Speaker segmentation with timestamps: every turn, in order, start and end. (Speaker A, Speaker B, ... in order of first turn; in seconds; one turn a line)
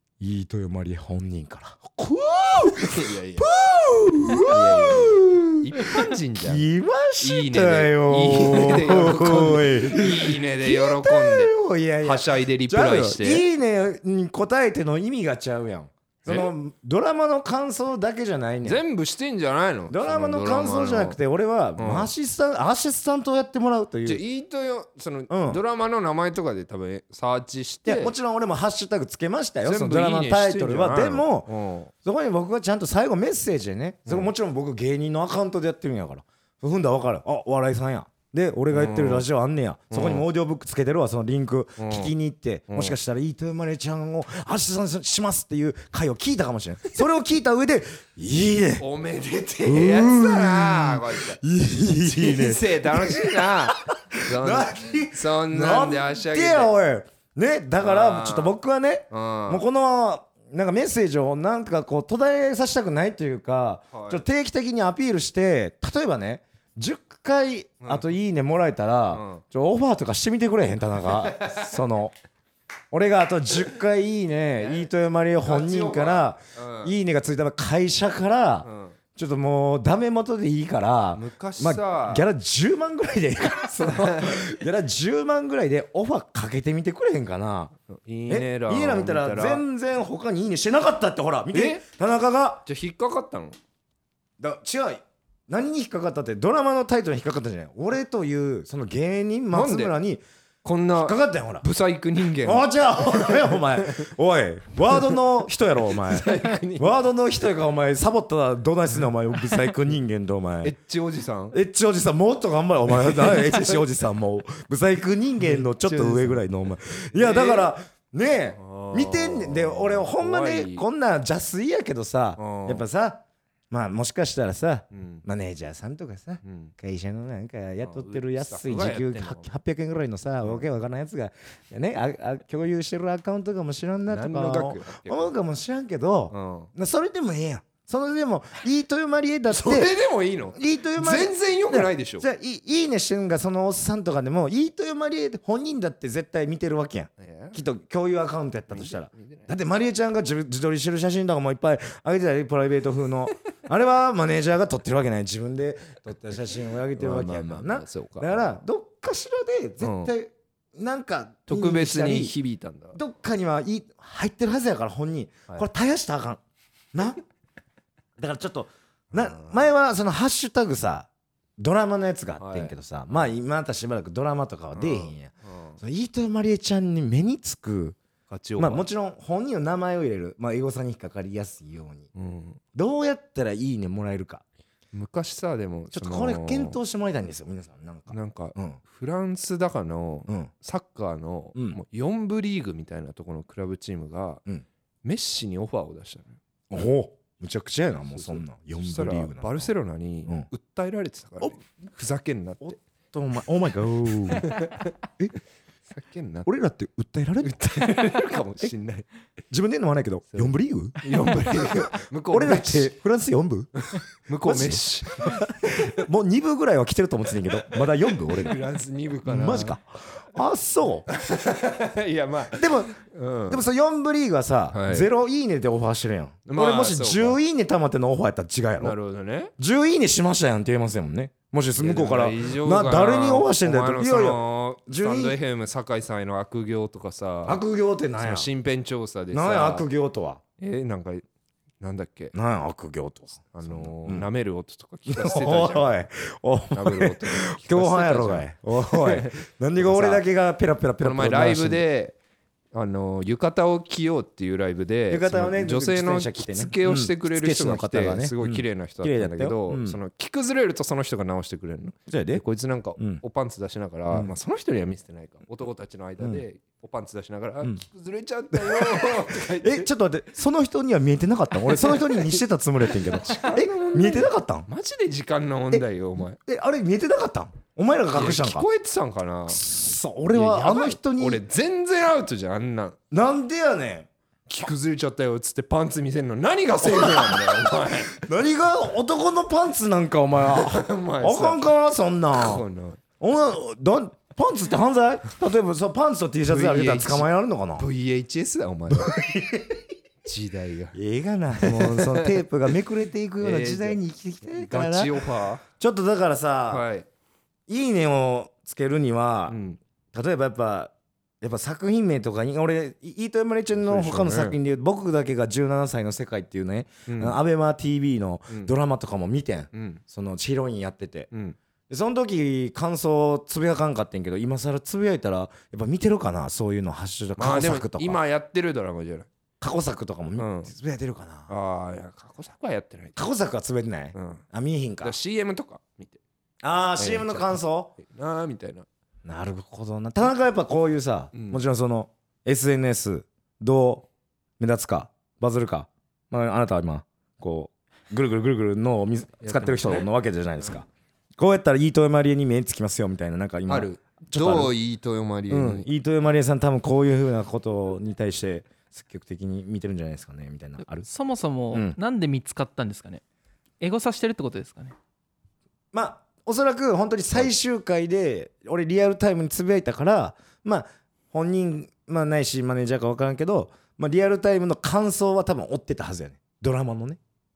Speaker A: 0.2-18.8
Speaker B: 2.8-3.5
Speaker B: 4.4-6.7
Speaker B: 7.2-13.5
Speaker B: 16.3-16.5
Speaker B: 18.6-21.2
Speaker A: 19.9-24.2
Speaker B: 21.8-22.1
Speaker B: 24.1-28.1
Speaker A: 25.3-25.6
Speaker A: 27.9-31.5
Speaker B: 29.6-31.9
Speaker A: 32.0-48.8
Speaker B: 38.7-39.3
Speaker B: 39.9-40.2
Speaker B: 41.8-42.1
Speaker B: 42.7-43.0
Speaker B: 48.8-51.4
Speaker A: 49.6-72.1
Speaker B: 51.9-56.7
Speaker B: 57.8-58.5
Speaker B: 59.1-59.6
Speaker B: 63.9-64.2
Speaker B: 67.8-68.1
Speaker B: 69.1-69.4
Speaker B: 71.2-71.7
Speaker A: 72.9-87.7
Speaker B: 74.6-74.9
Speaker B: 75.4-76.9
Speaker B: 78.6-79.0
Speaker B: 81.2-82.2
Speaker B: 83.8-84.5
Speaker B: 87.9-89.6
Speaker A: 88.3-92.6
Speaker B: 91.5-91.8
Speaker B: 92.7-93.6
Speaker A: 94.4-100.2
Speaker B: 99.5-100.0
Speaker B: 100.6-104.1
Speaker A: 101.0-101.7
Speaker A: 102.4-110.7
Speaker B: 105.9-106.9
Speaker B: 110.6-111.6
Speaker A: 111.5-139.9
Speaker B: 113.0-113.8
Speaker B: 115.4-116.4
Speaker B: 117.1-117.7
Speaker B: 118.6-120.8
Speaker B: 122.4-122.9
Speaker B: 124.9-125.2
Speaker B: 126.4-126.7
Speaker B: 127.8-129.5
Speaker B: 134.1-135.3
Speaker B: 136.3-136.7
Speaker B: 139.5-142.3
Speaker A: 140.6-162.3
Speaker B: 147.2-147.6
Speaker B: 148.7-149.5
Speaker B: 157.0-158.5
Speaker B: 159.8-160.1
Speaker B: 161.5-163.0
Speaker A: 162.9-166.4
Speaker A: 166.9-167.2
Speaker A: 168.2-178.0
Speaker B: 169.1-169.7
Speaker B: 172.4-173.3
Speaker B: 174.7-175.8
Speaker B: 178.3-178.9
Speaker A: 178.6-182.1
Speaker B: 182.1-182.6
Speaker A: 182.8-184.4
Speaker B: 184.9-186.8
Speaker A: 185.9-188.8
Speaker B: 188.1-194.4
Speaker A: 191.6-191.8
Speaker B: 195.0-196.4
Speaker A: 196.7-199.7
Speaker B: 198.1-202.8
Speaker A: 202.6-204.6
Speaker B: 204.3-204.9
Speaker B: 205.9-206.5
Speaker A: 206.5-208.0
Speaker B: 207.4-209.1
Speaker A: 209.5-213.7
Speaker B: 210.3-212.9
Speaker B: 213.8-216.1
Speaker A: 214.4-218.6
Speaker B: 218.1-219.8
Speaker A: 219.2-221.1
Speaker B: 221.1-223.6
Speaker A: 222.5-223.0
Speaker A: 223.5-229.0
Speaker B: 224.7-225.1
Speaker B: 226.5-227.4
Speaker B: 228.8-229.5
Speaker A: 229.6-235.4
Speaker B: 231.8-237.6
Speaker A: 237.4-238.5
Speaker B: 238.2-239.9
Speaker A: 239.3-240.4
Speaker B: 240.6-241.2
Speaker B: 241.8-242.3
Speaker A: 242.3-244.3
Speaker B: 243.5-245.9
Speaker A: 245.1-251.8
Speaker B: 246.7-250.2
Speaker B: 251.0-252.2
Speaker B: 252.7-269.9
Speaker A: 255.1-260.0
Speaker A: 262.1-262.4
Speaker A: 263.0-263.2
Speaker A: 268.5-274.7
Speaker B: 271.7-272.4
Speaker B: 273.1-276.4
Speaker A: 276.4-278.7
Speaker B: 278.1-279.6
Speaker A: 279.5-281.4
Speaker B: 280.3-283.0
Speaker A: 283.1-284.1
Speaker B: 284.5-288.1
Speaker A: 286.8-292.6
Speaker B: 290.4-291.6
Speaker B: 292.3-293.0
Speaker A: 293.2-297.9
Speaker B: 296.5-299.2
Speaker A: 298.9-299.9
Speaker B: 300.2-301.0
Speaker A: 300.9-306.9
Speaker B: 301.6-302.4
Speaker B: 303.4-305.6
Speaker B: 306.7-307.1
Speaker A: 307.7-309.6
Speaker B: 309.5-309.8
Speaker A: 310.1-321.3
Speaker B: 313.7-314.6
Speaker B: 317.1-317.4
Speaker B: 319.7-320.0
Speaker B: 321.3-321.6
Speaker A: 321.9-328.2
Speaker B: 327.4-329.3
Speaker A: 329.6-331.5
Speaker B: 330.4-330.7
Speaker B: 331.5-333.2
Speaker A: 333.2-335.2
Speaker B: 334.1-334.4
Speaker B: 335.0-336.2
Speaker A: 336.6-337.9
Speaker B: 337.0-338.9
Speaker A: 339.2-344.1
Speaker B: 341.3-341.6
Speaker A: 344.6-354.7
Speaker B: 349.4-350.1
Speaker B: 353.7-355.9
Speaker A: 355.5-361.1
Speaker C: 361.1-363.2
Speaker A: 361.7-362.0
Speaker C: 363.8-364.9
Speaker A: 365.9-377.2